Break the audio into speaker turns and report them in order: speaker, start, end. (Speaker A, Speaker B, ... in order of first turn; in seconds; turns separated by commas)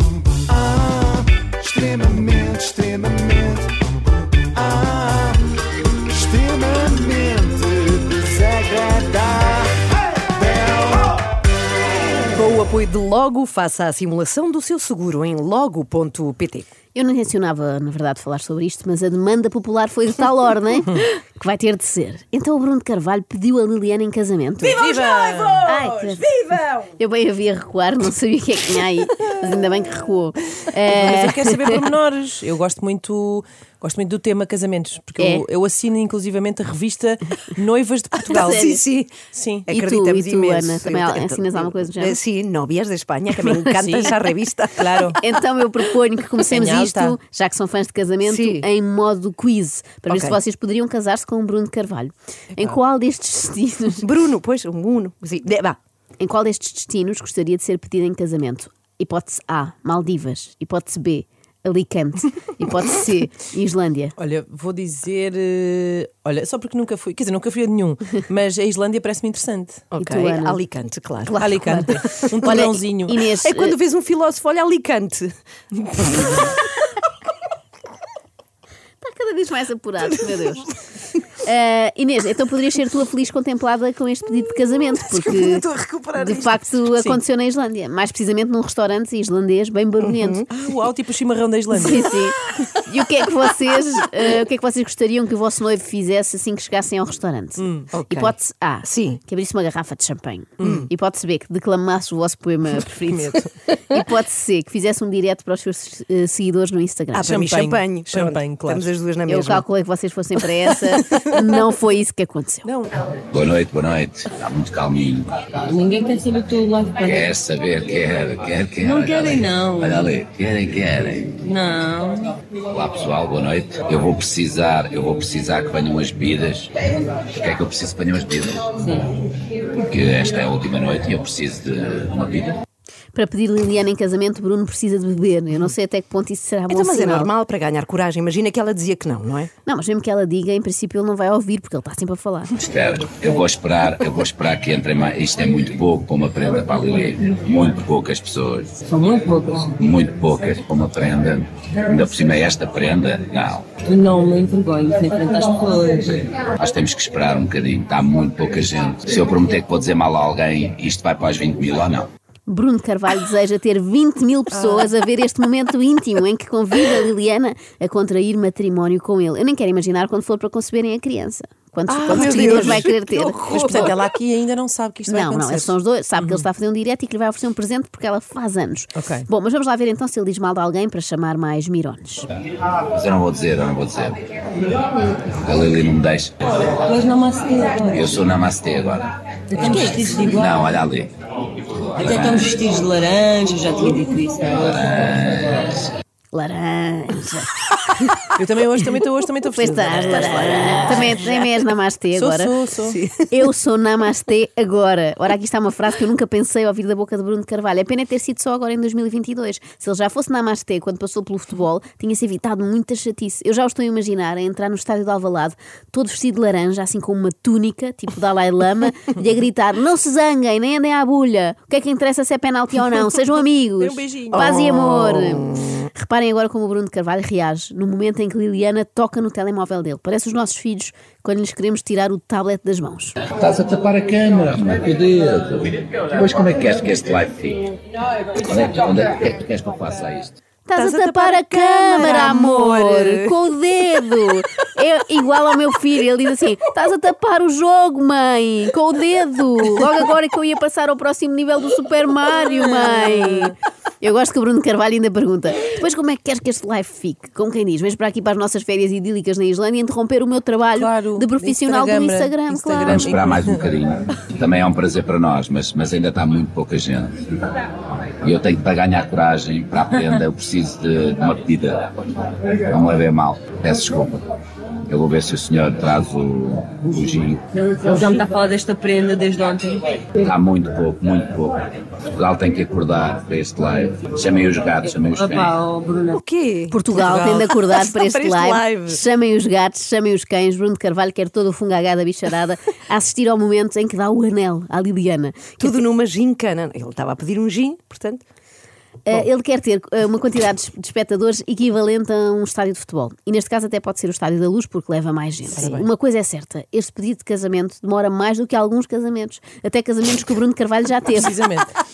Speaker A: 0.3-3.8, Speaker A: 4.5-5.5, Speaker A: 6.1-9.8, Speaker A: 10.3-11.2, Speaker B: 12.3-16.7, Speaker C: 16.9-24.8, Speaker D: 24.7-25.6, Speaker B: 24.8-25.2, Speaker C: 25.6-31.8, Speaker D: 30.9-38.6, Speaker C: 35.2-35.5, Speaker C: 38.3-38.8, Speaker B: 38.3-45.2, Speaker D: 39.3-39.7, Speaker C: 39.7-42.2, Speaker D: 43.4-44.1, Speaker D: 44.8-45.2, Speaker C: 45.2-54.0, Speaker D: 46.5-47.2, Speaker B: 48.2-48.7, Speaker B: 50.1-50.4, Speaker B: 54.0-55.8, Speaker C: 56.2-64.2, Speaker D: 64.2-69.8, Speaker B: 69.9-72.6, Speaker C: 70.0-70.6, Speaker D: 71.4-73.2, Speaker C: 71.6-73.8, Speaker B: 73.3-75.3, Speaker D: 75.7-76.1, Speaker B: 76.0-76.7, Speaker C: 79.0-80.7, Speaker B: 80.3-80.7, Speaker C: 81.4-90.5, Speaker B: 84.9-86.7, Speaker B: 90.1-90.5, Speaker D: 90.5-91.8, Speaker C: 91.7-107.4, Speaker B: 91.8-92.7, Speaker D: 97.6-97.9, Speaker B: 97.9-99.2, Speaker B: 100.6-100.9, Speaker D: 103.1-103.5, Speaker B: 107.1-109.6, Speaker D: 107.3-108.9, Speaker C: 109.3-112.7, Speaker B: 110.6-111.3, Speaker B: 112.7-112.9, Speaker E: 113.3-115.3, Speaker F: 115.7-117.3, Speaker E: 117.0-121.4, Speaker F: 118.8-120.1, Speaker F: 121.4-122.4, Speaker E: 122.7-126.7, Speaker E: 127.4-128.8, Speaker F: 128.8-129.1, Speaker E: 129.7-132.6, Speaker C: 133.1-137.3, Speaker B: 136.7-139.5, Speaker C: 139.7-142.6, Speaker E: 142.6-148.8, Speaker F: 148.9-149.8, Speaker E: 149.8-153.7, Speaker F: 153.8-156.3, Speaker E: 156.6-162.1, Speaker C: 162.5-173.9, Speaker D: 164.5-164.9, Speaker B: 171.9-174.0, Speaker D: 172.2-172.6, Speaker D: 173.5-176.4, Speaker C: 175.1-182.3, Speaker D: 179.0-179.3, Speaker E: 182.9-184.2, Speaker E: 185.3-186.9, Speaker F: 186.8-188.1, Speaker E: 187.9-191.1, Speaker F: 189.5-190.7, Speaker E: 192.0-192.8, Speaker F: 192.0-194.9, Speaker E: 194.6-195.9, Speaker C: 196.3-197.6, Speaker D: 198.4-201.1, Speaker C: 199.5-202.6, Speaker B: 199.9-201.5, Speaker D: 202.1-203.0, Speaker B: 202.9-203.3, Speaker C: 203.3-233.2, Speaker D: 223.8-224.5, Speaker B: 224.3-225.9, Speaker E: 233.3-237.7, Speaker E: 238.3-240.4, Speaker C: 240.7-263.4, Speaker B: 240.8-243.4, Speaker D: 253.0-253.5, Speaker D: 260.8-263.6, Speaker E: 262.9-267.2, Speaker E: 268.2-274.2, Speaker E: 274.9-277.4, Speaker F: 277.7-280.1, Speaker E: 280.2-285.6, Speaker F: 285.1-286.2, Speaker B: 286.1-289.0, Speaker C: 286.7-295.8, Speaker B: 295.6-298.2, Speaker C: 299.1-311.5, Speaker D: 305.6-305.9, Speaker D: 311.1-311.7